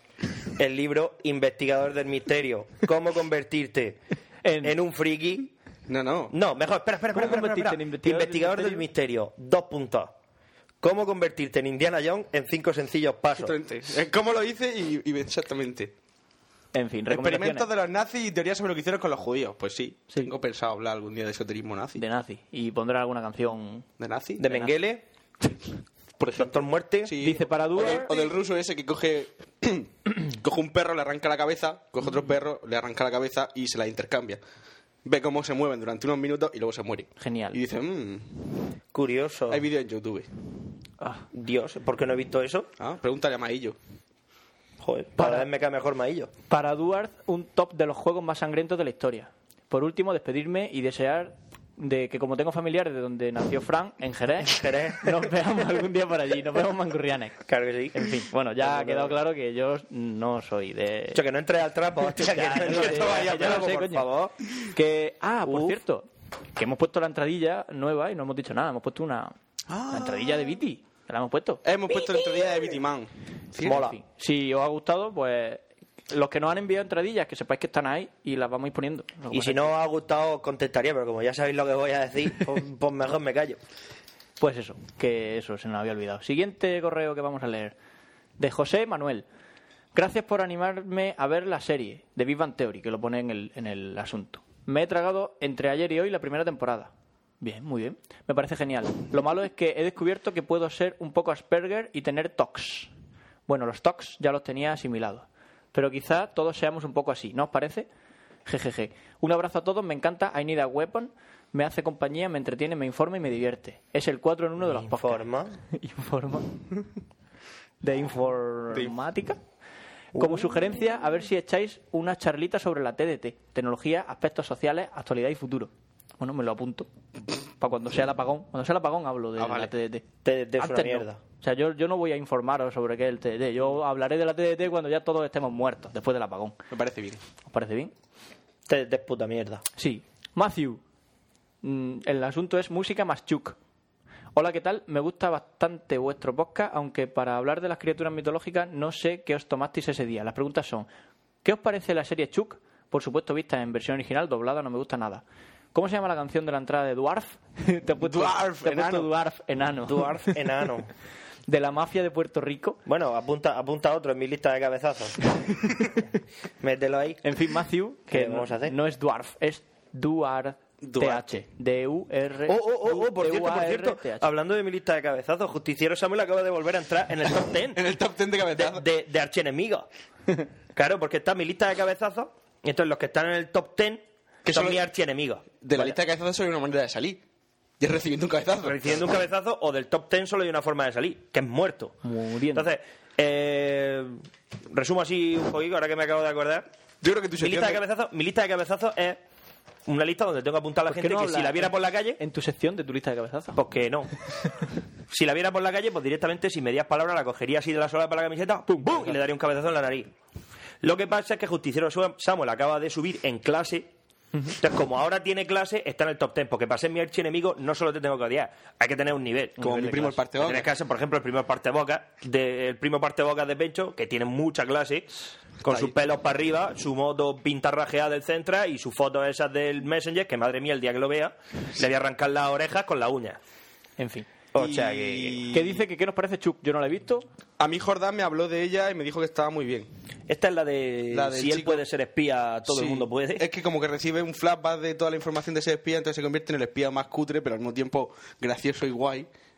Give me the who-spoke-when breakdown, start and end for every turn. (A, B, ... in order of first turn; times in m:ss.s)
0:00.6-0:04.0 A
0:04.4-0:04.8 B
0:04.6-0:05.5 A
0:05.9-0:06.3 C
0:06.3-0:10.1 A
0:07.1-0:08.8 B
0:10.8-0:13.5 A
0:13.4-0:15.9 C
0:16.7-0:17.6 B
0:17.1-0:22.0 C
0:22.0-0:23.9 B
0:24.0-0:24.4 C
0:24.4-0:25.0 A
0:26.2-0:26.5 C
0:26.3-0:27.1 A
0:27.0-0:34.4 C
0:27.2-0:28.3 B
0:35.0-0:38.3 C
0:37.2-0:37.6 B
0:38.9-0:39.6 A
0:39.5-0:40.3 C
0:41.3-0:42.7 A
0:42.8-0:43.8 C
0:44.8-0:46.3 A
0:45.2-0:45.5 B
0:46.5-0:57.4 B
0:54.5-0:55.1 A
0:57.4-0:59.1 A
0:57.9-1:01.2 B
1:01.1-1:04.3 A
1:02.2-1:09.3 B
1:02.5-1:03.7 C
1:05.4-1:05.8 A
1:09.7-1:10.5 C
1:09.9-1:11.6 B
1:11.6-1:13.8 C
1:13.6-1:14.0 A
1:13.6-1:19.7 B
1:19.3-1:23.6 A
1:24.4-1:27.8 B
1:28.4-1:29.2 B
1:29.9-1:42.9 B
1:43.5-1:47.9 B
1:48.4-1:56.8 B
1:54.6-1:55.6 A
1:57.8-1:59.4 B
2:00.1-2:00.6 A
2:00.2-2:06.9 B
2:07.6-2:10.0 B
2:09.4-2:09.7 C
2:10.2-2:11.2 A
2:10.6-2:16.6 B
2:16.7-2:17.2 C
2:17.4-2:17.9 B
2:18.7-2:19.6 A
2:19.8-2:20.8 B
2:21.6-2:23.6 B
2:24.3-2:30.9 B
2:31.4-2:35.2 B
2:35.7-2:40.4 B
2:38.0-2:39.1 C
2:39.8-2:40.9 A
2:41.5-2:42.8 B
2:42.8-2:45.2 A
2:46.6-2:47.2 A
2:47.2-2:54.3 B
2:48.1-2:48.8 A
2:50.8-2:51.2 C
2:52.5-2:57.8 A
2:57.7-2:58.8 C
2:58.5-2:59.9 A
3:00.7-3:05.9 A
3:04.4-3:04.8 C
3:05.6-3:07.2 C
3:07.8-3:09.0 C
3:08.6-3:12.0 A
3:12.0-3:12.7 B
3:12.5-3:16.7 A
3:17.0-3:17.8 C
3:17.4-3:19.2 A
3:19.8-3:22.2 A
3:20.9-3:23.6 B
3:23.5-3:24.1 A
3:25.1-3:30.1 A
3:28.7-3:29.2 B
3:30.8-3:33.9 A
3:34.5-3:39.7 A
3:39.6-3:40.2 B
3:39.6-3:40.7 C
3:40.4-3:45.1 A
3:45.6-3:53.4 A
3:54.0-3:54.3 B
3:54.5-3:55.4 A
3:54.6-3:55.8 C
3:55.5-3:57.2 B
3:57.6-3:59.9 C
4:00.3-4:03.4 A
4:01.1-4:01.8 C
4:02.7-4:09.3 C